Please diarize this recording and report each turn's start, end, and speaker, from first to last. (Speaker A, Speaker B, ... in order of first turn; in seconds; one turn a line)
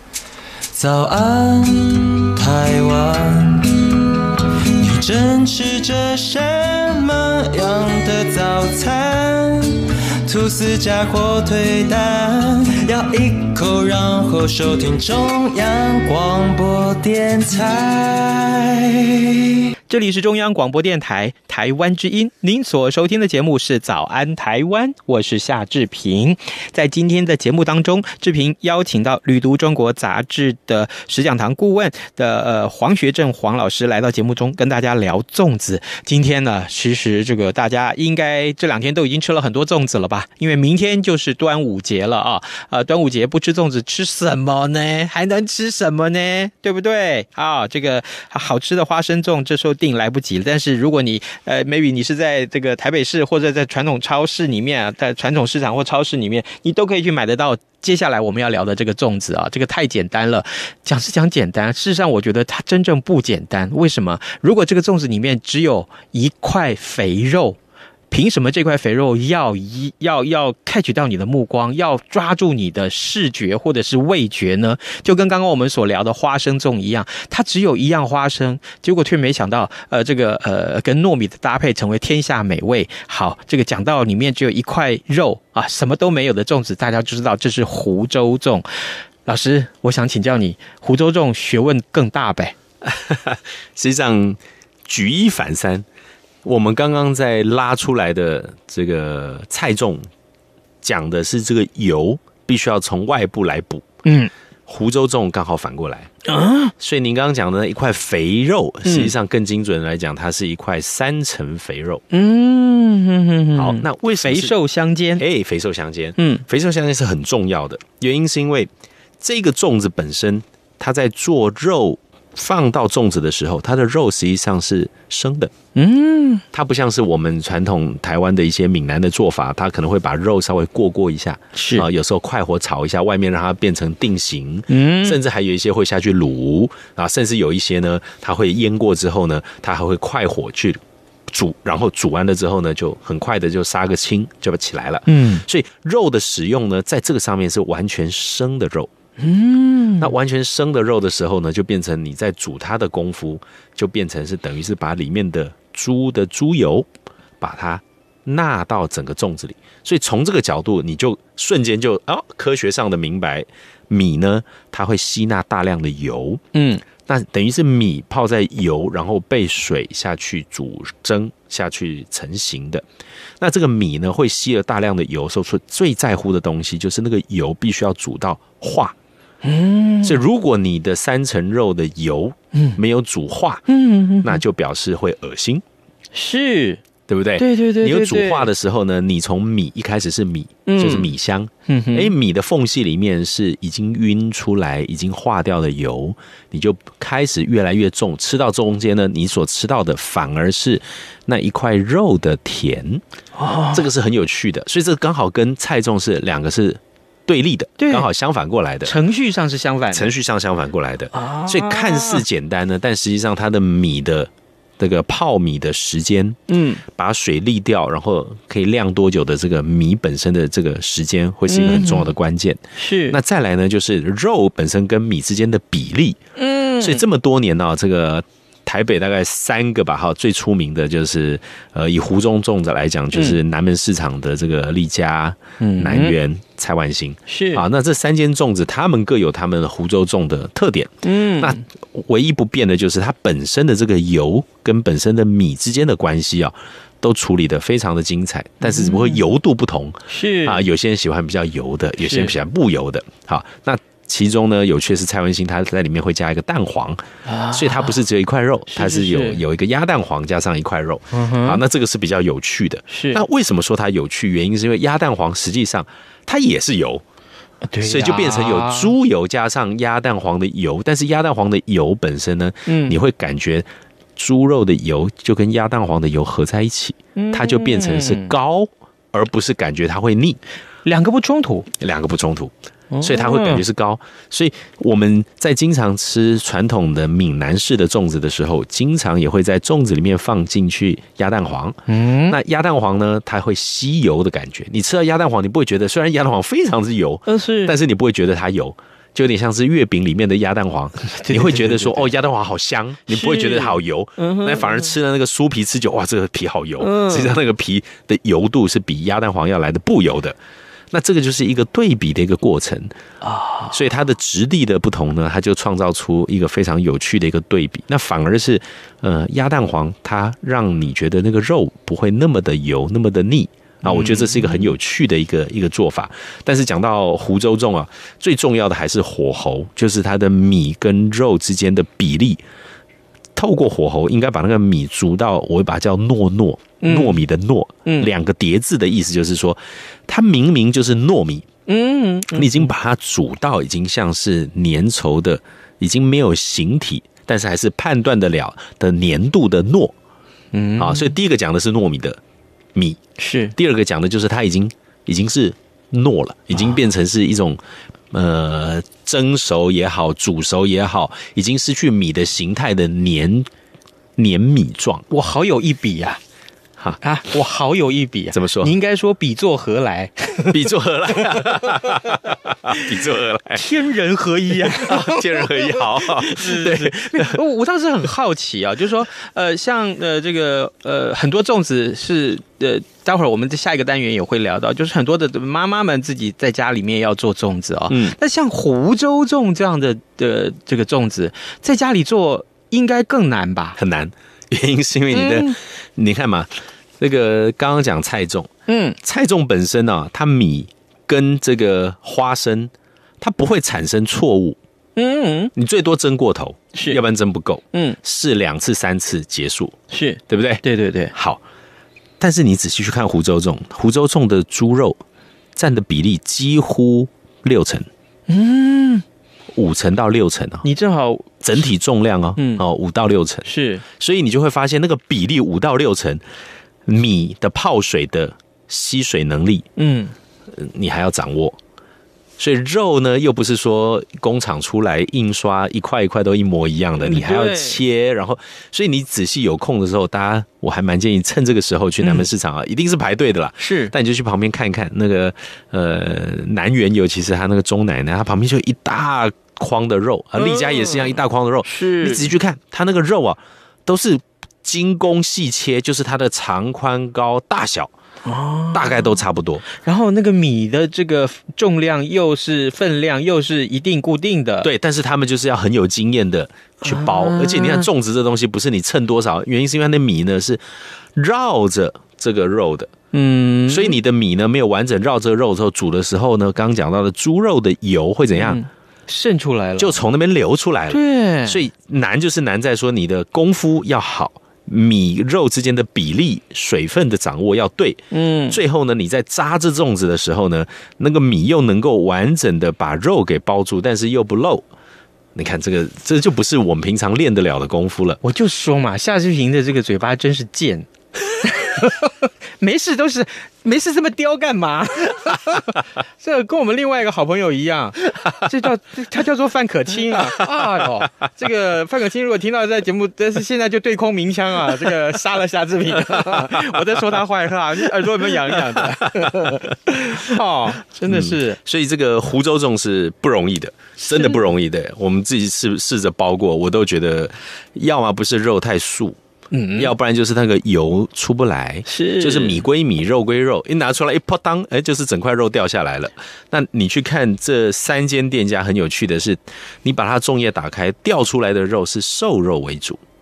Speaker A: 0.7-4.1
Speaker A: 4.8-19.2
Speaker B: 19.9-67.6
Speaker B: 68.1-88.7
Speaker B: 89.3-92.5
Speaker C: 92.8-95.8
Speaker C: 96.4-100.1
Speaker C: 100.8-103.9
Speaker B: 104.0-104.3
Speaker C: 104.7-106.1
Speaker B: 106.2-106.7
Speaker C: 106.8-112.0
Speaker B: 108.8-109.1
Speaker B: 112.1-115.2
Speaker C: 113.5-114.5
Speaker C: 115.2-125.5
Speaker B: 116.2-116.4
Speaker B: 125.8-126.4
Speaker C: 126.5-148.9
Speaker B: 131.6-131.9
Speaker B: 134.7-135.2
Speaker B: 145.1-145.4
Speaker B: 149.2-150.2
Speaker C: 150.0-156.9
Speaker C: 157.4-166.4
Speaker B: 166.5-166.8
Speaker C: 167.0-172.8
Speaker C: 173.4-179.0
Speaker B: 179.4-180.2
Speaker C: 180.0-183.6
Speaker B: 183.7-184.4
Speaker C: 184.2-185.6
Speaker B: 186.1-186.8
Speaker C: 187.1-203.0
Speaker B: 187.4-188.5
Speaker B: 190.7-191.1
Speaker B: 191.7-192.1
Speaker B: 203.4-203.8
Speaker C: 203.7-208.9
Speaker B: 207.8-208.1
Speaker B: 208.8-210.1
Speaker C: 209.9-226.2
Speaker B: 211.1-212.2
Speaker B: 216.5-216.8
Speaker B: 221.5-222.1
Speaker B: 222.8-223.2
Speaker B: 226.4-227.0
Speaker C: 226.8-267.0
Speaker B: 233.1-233.4
Speaker B: 235.6-236.2
Speaker B: 237.3-237.6
Speaker B: 241.0-241.6
Speaker B: 248.6-249.2
Speaker B: 250.1-250.6
Speaker B: 252.0-252.3
Speaker B: 257.3-258.0
Speaker B: 258.7-259.4
Speaker B: 261.1-261.6
Speaker B: 262.9-263.2
Speaker B: 267.7-268.9
Speaker C: 267.8-280.4
Speaker B: 272.7-273.0
Speaker B: 277.2-278.3
Speaker B: 280.9-281.7
Speaker C: 281.8-310.4
Speaker B: 282.9-283.6
Speaker B: 291.9-292.4
Speaker B: 297.3-297.7
Speaker B: 301.2-302.1
Speaker B: 303.1-304.9
Speaker B: 306.8-307.4
Speaker C: 310.9-312.9
Speaker B: 313.2-313.8
Speaker C: 313.7-332.4
Speaker B: 323.8-324.7
Speaker C: 333.4-341.5
Speaker B: 336.8-337.2
Speaker B: 341.7-342.7
Speaker C: 342.3-349.9
Speaker B: 350.5-351.1
Speaker C: 350.8-352.2
Speaker C: 352.8-353.0
Speaker B: 353.2-353.6
Speaker C: 353.6-357.6
Speaker C: 358.1-363.5
Speaker C: 364.2-365.1
Speaker B: 365.1-366.2
Speaker B: 367.0-370.6
Speaker C: 368.3-368.7
Speaker C: 370.5-373.7
Speaker B: 371.4-371.9
Speaker B: 373.5-393.8
Speaker C: 374.7-377.4
Speaker C: 387.9-388.1
Speaker C: 393.8-398.5
Speaker B: 395.1-395.6
Speaker B: 398.7-399.0
Speaker C: 399.0-404.6
Speaker B: 405.0-405.5
Speaker C: 405.6-409.8
Speaker B: 406.7-407.0
Speaker B: 409.9-411.1
Speaker C: 410.3-411.4
Speaker C: 412.2-415.0
Speaker C: 415.6-417.9
Speaker B: 418.3-419.0
Speaker C: 419.5-420.6
Speaker B: 420.6-421.3
Speaker C: 421.4-426.2
Speaker B: 422.4-422.6
Speaker B: 423.4-423.9
Speaker C: 426.9-429.7
Speaker B: 429.8-430.1
Speaker C: 430.5-431.6
Speaker C: 432.4-457.9
Speaker B: 437.0-437.8
Speaker B: 442.0-442.3
Speaker B: 443.6-443.9
Speaker B: 450.4-451.1
Speaker B: 451.6-452.3
Speaker B: 458.2-459.2
Speaker C: 458.7-459.6
Speaker B: 459.8-464.7
Speaker C: 464.6-470.6
Speaker B: 466.8-467.9
Speaker C: 471.1-472.9
Speaker B: 473.1-474.0
Speaker C: 473.7-478.6
Speaker B: 478.4-480.0
Speaker C: 479.8-494.6
Speaker B: 480.9-481.6
Speaker B: 488.1-488.6
Speaker C: 495.4-498.2
Speaker B: 498.2-521.6
Speaker C: 518.8-519.6
Speaker C: 521.1-529.2
Speaker B: 524.0-524.4
Speaker B: 529.5-529.9
Speaker C: 529.8-543.0
Speaker B: 531.9-532.6